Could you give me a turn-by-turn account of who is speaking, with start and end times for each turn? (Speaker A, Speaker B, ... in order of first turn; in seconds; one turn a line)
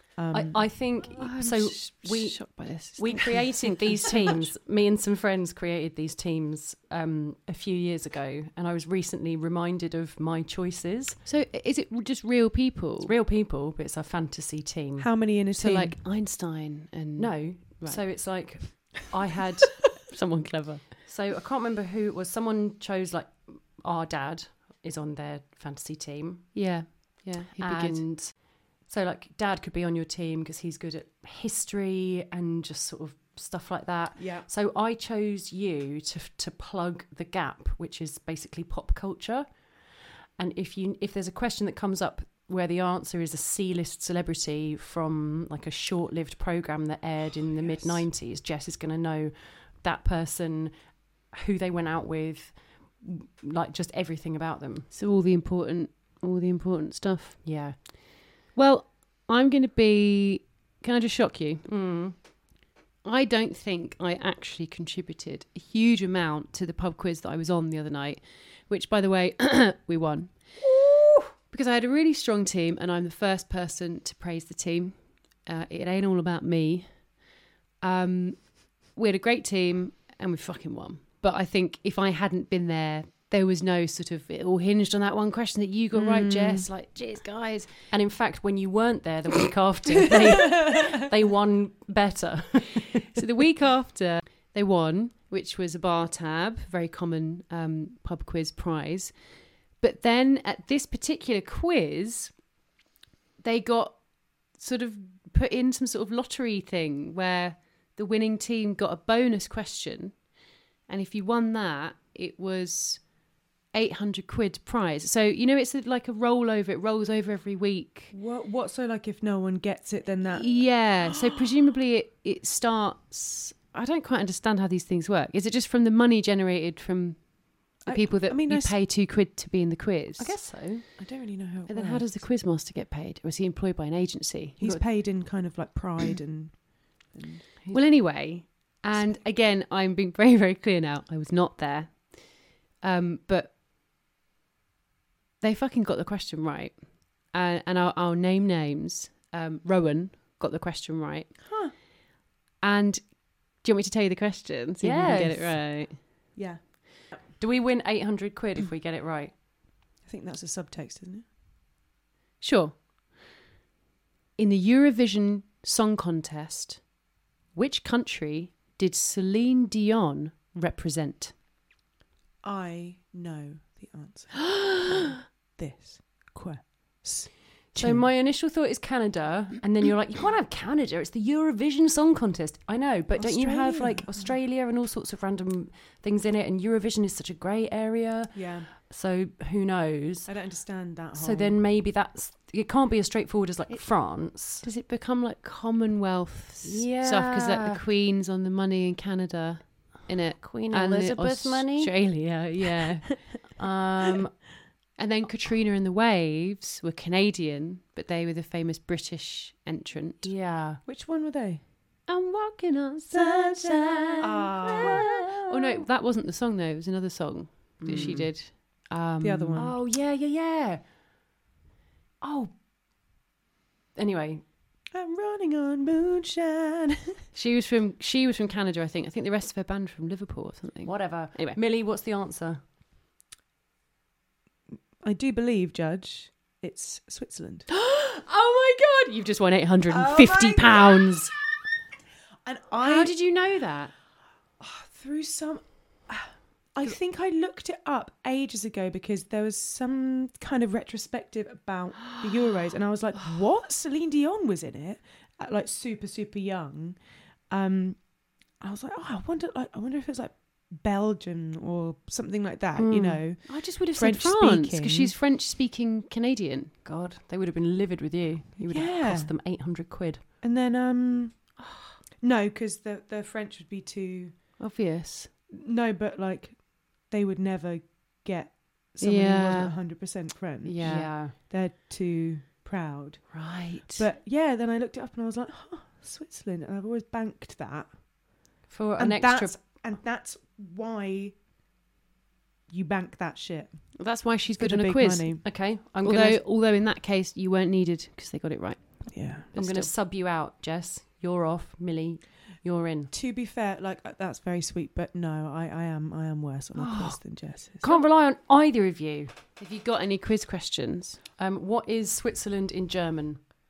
Speaker A: 0.1-0.7
Speaker B: 0.3-11.2
Speaker C: 1.0-4.5
Speaker C: 11.2-13.1
Speaker B: 13.0-15.1
Speaker A: 15.0-16.0
Speaker C: 15.6-18.0
Speaker B: 17.2-20.0
Speaker C: 20.1-20.9
Speaker B: 21.0-26.5
Speaker C: 26.5-28.0
Speaker B: 27.6-39.6
Speaker A: 34.2-34.5
Speaker B: 40.4-54.9
Speaker A: 47.7-48.0
Speaker C: 54.9-57.4
Speaker B: 57.4-57.8
Speaker C: 58.5-61.7
Speaker B: 61.6-62.1
Speaker C: 63.0-77.1
Speaker C: 77.8-87.8
Speaker A: 85.9-86.7
Speaker B: 87.9-93.1
Speaker C: 93.1-99.2
Speaker C: 99.8-102.4
Speaker C: 103.4-110.2
Speaker C: 110.9-113.2
Speaker C: 113.7-118.1
Speaker A: 118.1-120.6
Speaker C: 120.3-130.9
Speaker A: 127.8-128.8
Speaker B: 130.2-130.8
Speaker A: 131.0-132.1
Speaker C: 131.7-134.8
Speaker A: 134.6-137.5
Speaker C: 137.7-143.5
Speaker C: 145.4-151.8
Speaker A: 151.4-151.7
Speaker C: 152.6-156.0
Speaker B: 154.8-155.6
Speaker A: 156.3-156.6
Speaker B: 157.4-159.3
Speaker A: 160.0-161.2
Speaker C: 162.4-162.8
Speaker C: 164.4-166.8
Speaker C: 167.5-171.3
Speaker A: 172.4-178.1
Speaker C: 174.6-175.0
Speaker B: 177.7-190.3
Speaker A: 183.2-184.3
Speaker A: 188.3-188.7
Speaker A: 190.2-191.6
Speaker B: 191.1-194.7
Speaker C: 193.7-203.1
Speaker B: 196.6-197.8
Speaker B: 200.4-204.5
Speaker C: 204.9-210.3
Speaker B: 210.2-210.8
Speaker A: 210.8-211.6
Speaker C: 212.1-219.7
Speaker A: 213.1-215.1
Speaker B: 214.8-215.5
Speaker B: 217.8-218.3
Speaker A: 219.2-219.8
Speaker B: 219.6-220.8
Speaker B: 222.2-222.5
Speaker B: 223.9-224.4
Speaker A: 224.9-227.2
Speaker C: 227.3-231.6
Speaker B: 230.8-232.6
Speaker A: 235.0-237.7
Speaker C: 237.7-241.3
Speaker A: 239.9-241.1
Speaker A: 242.4-243.2
Speaker C: 242.8-243.9
Speaker A: 244.6-257.0
Speaker A: 257.5-265.1
Speaker B: 262.8-263.2
Speaker C: 263.5-266.7
Speaker B: 266.8-270.2
Speaker A: 268.7-269.3
Speaker A: 270.4-271.6
Speaker C: 271.6-271.9
Speaker A: 272.2-274.4
Speaker C: 274.6-275.3
Speaker A: 275.5-288.0
Speaker C: 279.0-279.7
Speaker C: 280.6-281.1
Speaker B: 280.8-281.3
Speaker C: 283.3-284.1
Speaker B: 288.7-289.7
Speaker A: 289.0-291.4
Speaker A: 292.7-293.9
Speaker C: 293.9-299.9
Speaker A: 294.6-295.4
Speaker B: 295.4-296.4
Speaker A: 299.1-299.5
Speaker B: 299.5-303.1
Speaker A: 303.1-308.0
Speaker B: 306.7-307.2
Speaker B: 307.8-309.3
Speaker C: 309.6-311.2
Speaker B: 311.4-313.4